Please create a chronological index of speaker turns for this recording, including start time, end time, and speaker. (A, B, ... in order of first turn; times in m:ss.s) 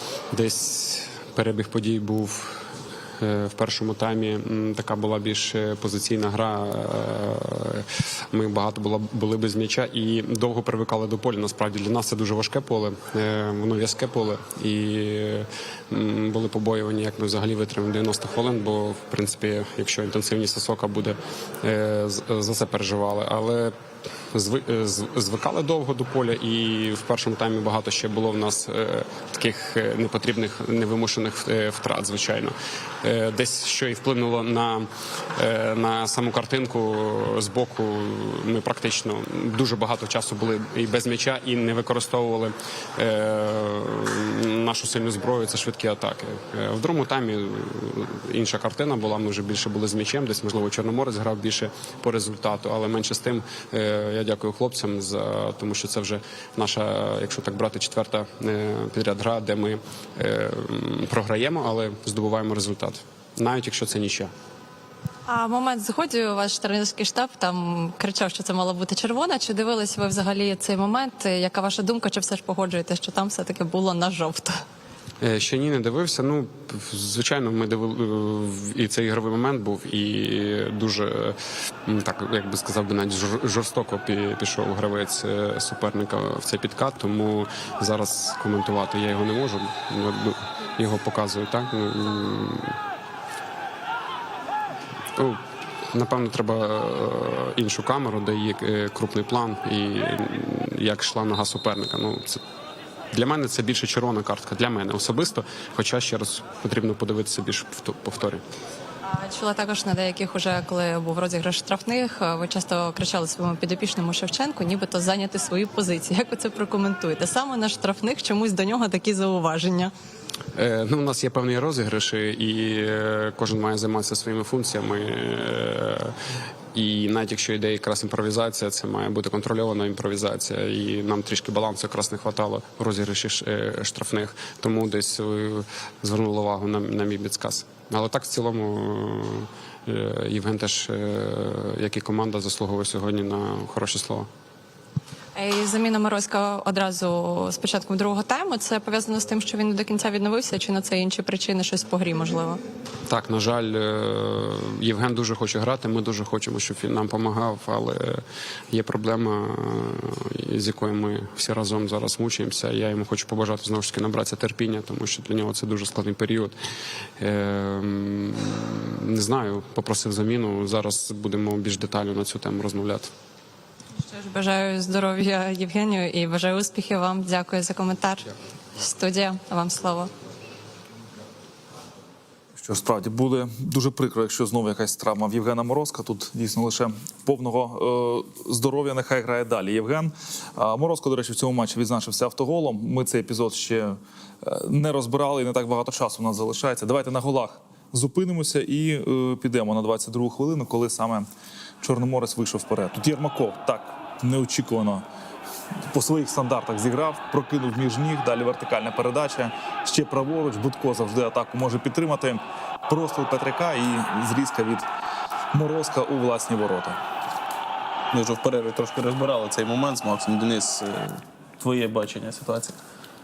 0:00.3-0:23.8 A
0:24.3-1:04.3 A
1:05.3-1:14.6 B
1:15.2-1:32.8 A
1:35.1-1:42.4 A
1:43.1-1:48.4 A
1:49.0-1:59.9 B
2:00.5-2:06.2 A
2:06.7-2:24.3 A
2:25.3-2:32.6 B
2:33.1-2:46.6 A
2:47.2-2:53.1 A
2:54.0-3:00.1 B
3:02.6-3:21.3 C
3:21.8-3:25.0 C
3:25.9-3:34.8 C
3:35.5-3:37.0 C
3:38.1-3:42.8 D